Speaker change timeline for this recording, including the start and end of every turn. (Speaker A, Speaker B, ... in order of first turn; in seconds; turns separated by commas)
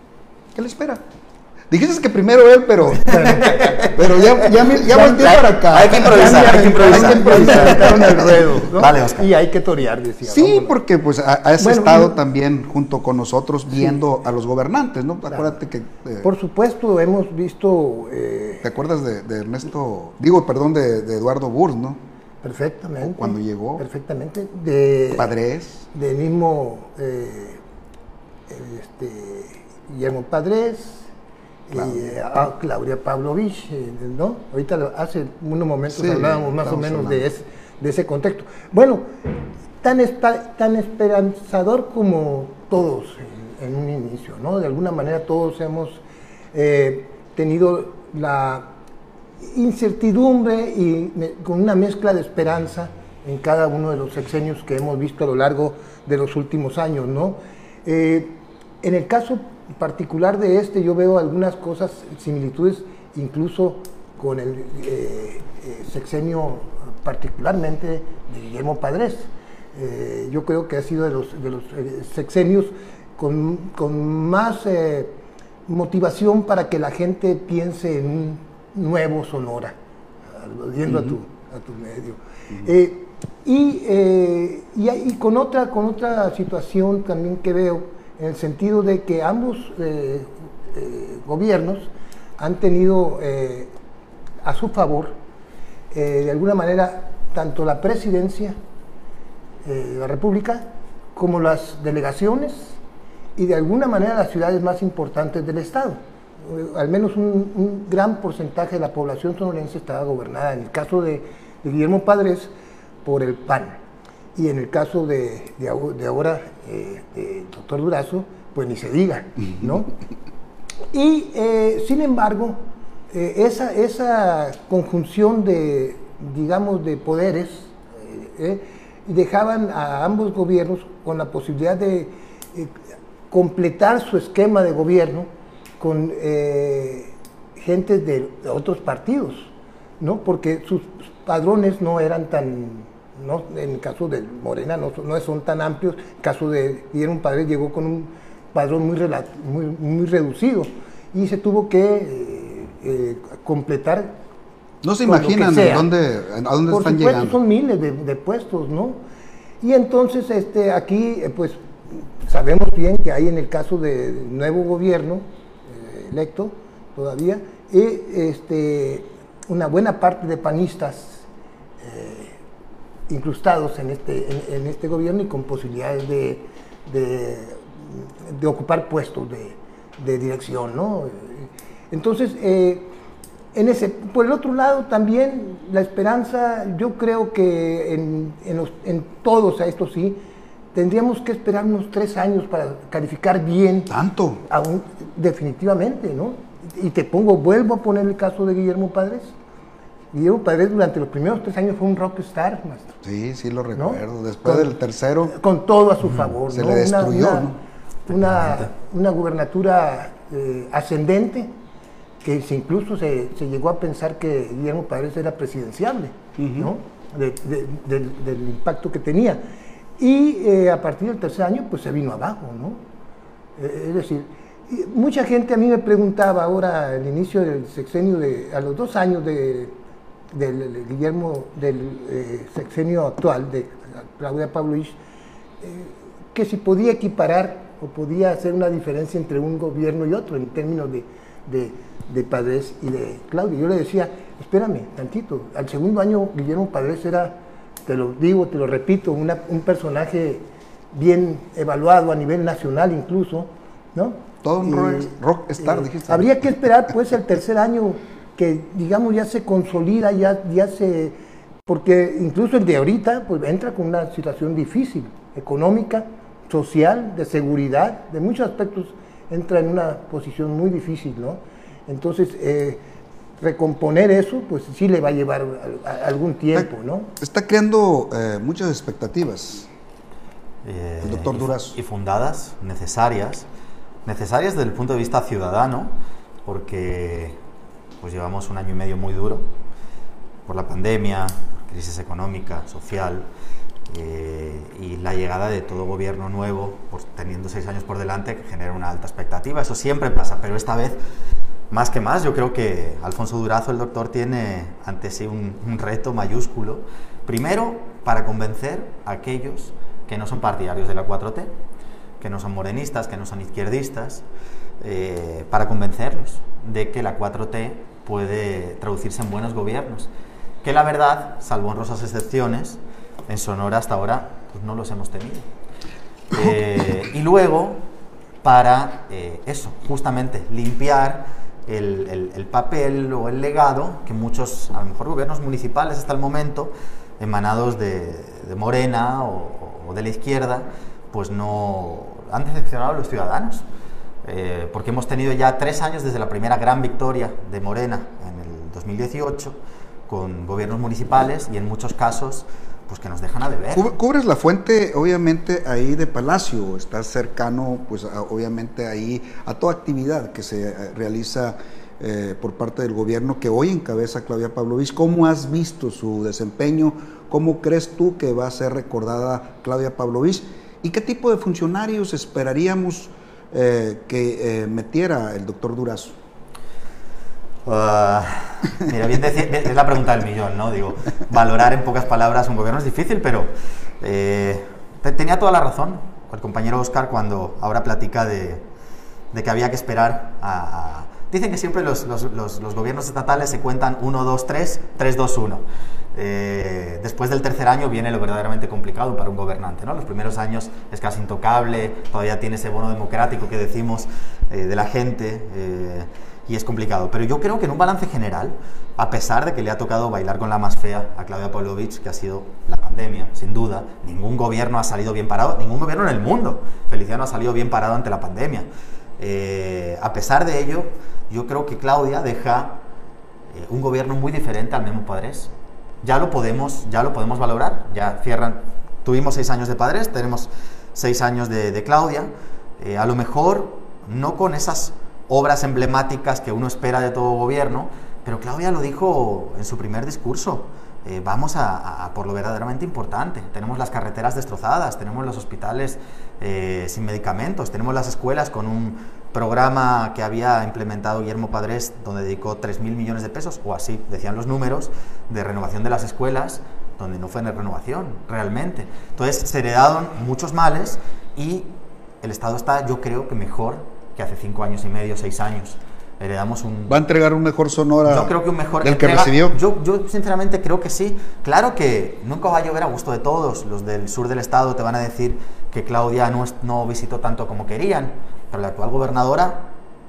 Speaker A: 0.5-1.0, Speaker A: 1.7-8.9, Speaker B: 3.0-10.8, Speaker C: 3.1-9.3, Speaker A: 10.2-16.3, Speaker B: 11.6-12.2, Speaker B: 15.3-15.5, Speaker B: 16.2-18.7, Speaker A: 18.6-22.0, Speaker B: 22.4-25.3, Speaker A: 23.0-23.8, Speaker A: 25.1-25.9, Speaker B: 25.9-27.6, Speaker B: 28.5-31.1, Speaker B: 31.7-39.1, Speaker A: 31.7-32.0, Speaker A: 35.9-37.2, Speaker B: 39.8-48.7, Speaker B: 49.4-75.1, Speaker B: 75.7-79.7, Speaker B: 80.3-93.7, Speaker A: 80.9-81.1, Speaker B: 94.4-95.1, Speaker B: 95.9-98.6, Speaker B: 99.6-102.8, Speaker B: 103.3-112.5, Speaker B: 113.0-113.8, Speaker B: 114.3-119.9, Speaker B: 120.9-122.6, Speaker B: 123.1-132.7, Speaker B: 133.3-154.2, Speaker A: 154.8-157.4, Speaker B: 155.0-155.9, Speaker B: 156.7-159.0, Speaker B: 159.6-171.2, Speaker B: 171.8-172.4, Speaker B: 173.1-182.9, Speaker B: 183.5-190.2, Speaker B: 190.7-193.9, Speaker A: 193.9-194.4, Speaker B: 194.5-199.3, Speaker B: 200.1-202.9, Speaker A: 203.0-205.3, Speaker B: 203.7-204.7, Speaker B: 205.3-207.5, Speaker A: 206.5-207.6, Speaker B: 208.1-211.5, Speaker B: 212.2-219.4, Speaker A: 216.4-216.7, Speaker B: 220.0-222.8, Speaker B: 223.6-229.7, Speaker B: 230.3-235.0, Speaker B: 235.6-272.8, Speaker A: 254.4-256.4, Speaker B: 273.4-277.1, Speaker A: 276.5-279.7, Speaker C: 280.6-283.4, Speaker A: 281.0-281.8, Speaker C: 284.0-285.9, Speaker C: 286.4-287.4, Speaker C: 288.0-289.4, Speaker C: 290.5-293.3, Speaker C: 293.9-301.0, Speaker C: 301.7-311.5, Speaker C: 312.2-314.2, Speaker C: 314.8-320.1, Speaker C: 320.6-325.4, Speaker C: 326.3-327.8, Speaker C: 328.4-343.6, Speaker C: 344.2-349.6, Speaker C: 350.1-353.9, Speaker A: 353.7-376.1, Speaker C: 377.6-388.6, Speaker C: 389.3-418.7, Speaker C: 419.2-422.8, Speaker C: 423.5-425.5, Speaker C: 426.0-461.7, Speaker C: 462.2-467.0, Speaker A: 466.9-469.6, Speaker C: 468.0-479.7